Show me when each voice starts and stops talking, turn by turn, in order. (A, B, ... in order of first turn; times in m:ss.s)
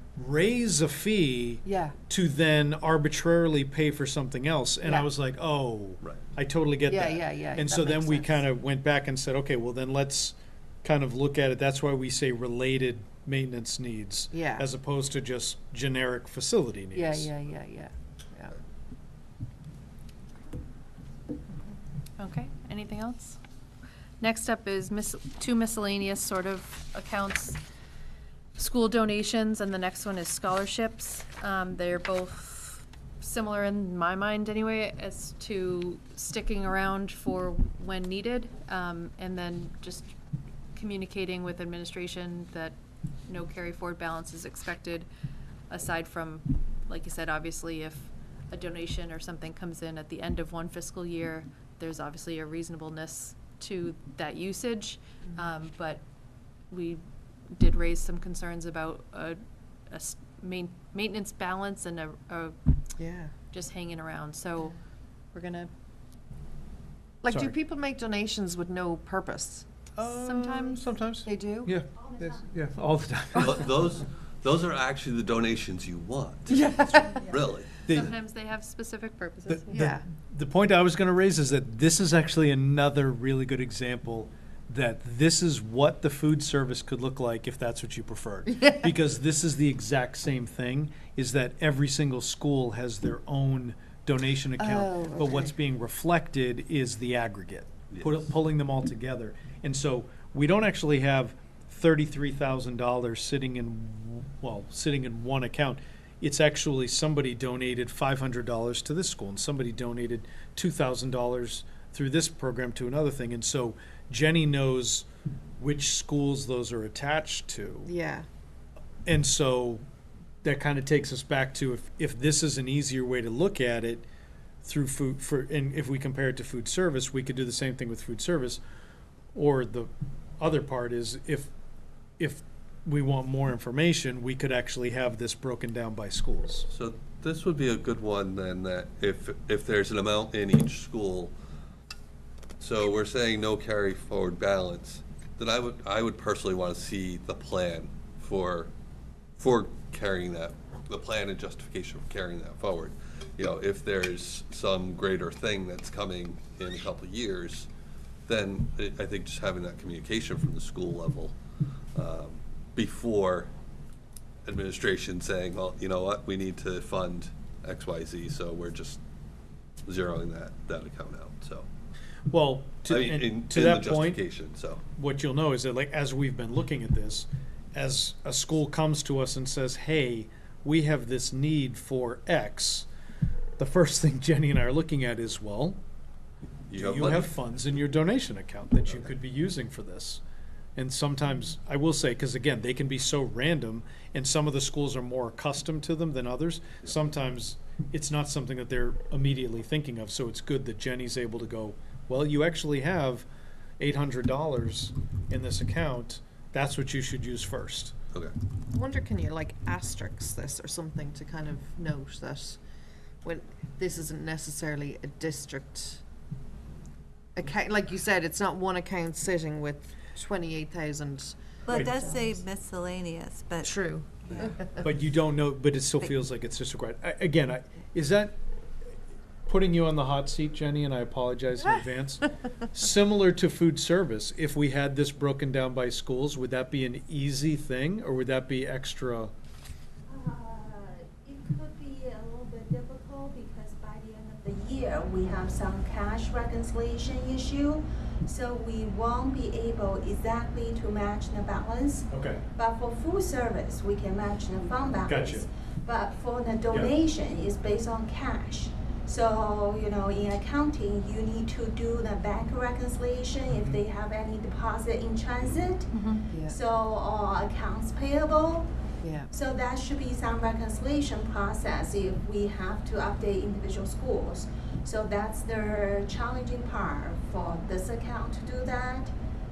0:00.2-0:17.3 A
0:01.6-0:02.0 B
0:06.9-0:08.4 B
0:14.3-0:14.7 B
0:16.9-0:18.5 B
0:22.2-0:23.4 C
0:24.2-0:27.6 C
0:28.6-0:40.1 C
0:40.7-0:42.8 C
0:43.3-0:45.1 C
0:45.7-0:56.0 C
0:56.7-1:02.6 C
1:03.0-1:03.3 B
1:03.5-1:04.7 C
1:05.3-1:05.7 C
1:07.2-1:09.6 B
1:10.0-1:13.7 A
1:10.0-1:10.8 C
1:11.2-1:11.7 B
1:13.4-1:17.8 D
1:16.5-1:17.3 B
1:17.8-1:18.1 A
1:17.9-1:19.7 C
1:19.5-1:55.1 A
1:19.7-1:20.0 B
1:34.6-1:35.5 B
1:37.9-1:38.3 D
1:55.6-1:57.9 A
1:57.8-1:58.2 B
1:59.0-1:59.8 A
2:00.4-2:04.0 A
2:04.6-2:08.6 A
2:09.3-2:11.5 A
2:12.2-2:16.7 A
2:16.7-2:21.3 D
2:22.6-2:28.7 D
2:29.4-2:37.7 D
2:38.3-2:41.3 D
2:41.9-2:43.5 D
2:44.4-2:49.0 D
2:49.8-2:51.6 D
2:52.3-2:54.2 A
2:52.8-2:54.8 D
2:55.0-3:02.9 A
3:03.6-3:05.8 A
3:06.7-3:07.4 D
3:06.7-3:10.2 A
3:10.8-3:23.2 A
3:23.8-3:27.9 A
3:28.7-3:32.6 B
3:33.2-3:36.0 B
3:37.4-3:41.4 B
3:41.6-3:43.7 E
3:41.7-3:42.4 F
3:43.6-3:44.6 B
3:44.8-3:48.4 A
3:49.5-3:59.3 A
4:00.1-4:28.7 F
4:12.1-4:12.4 A
4:15.1-4:15.4 A
4:23.5-4:23.8 A
4:25.9-4:26.2 C
4:26.3-4:26.6 B
4:29.0-4:29.3 B
4:29.3-4:39.1 F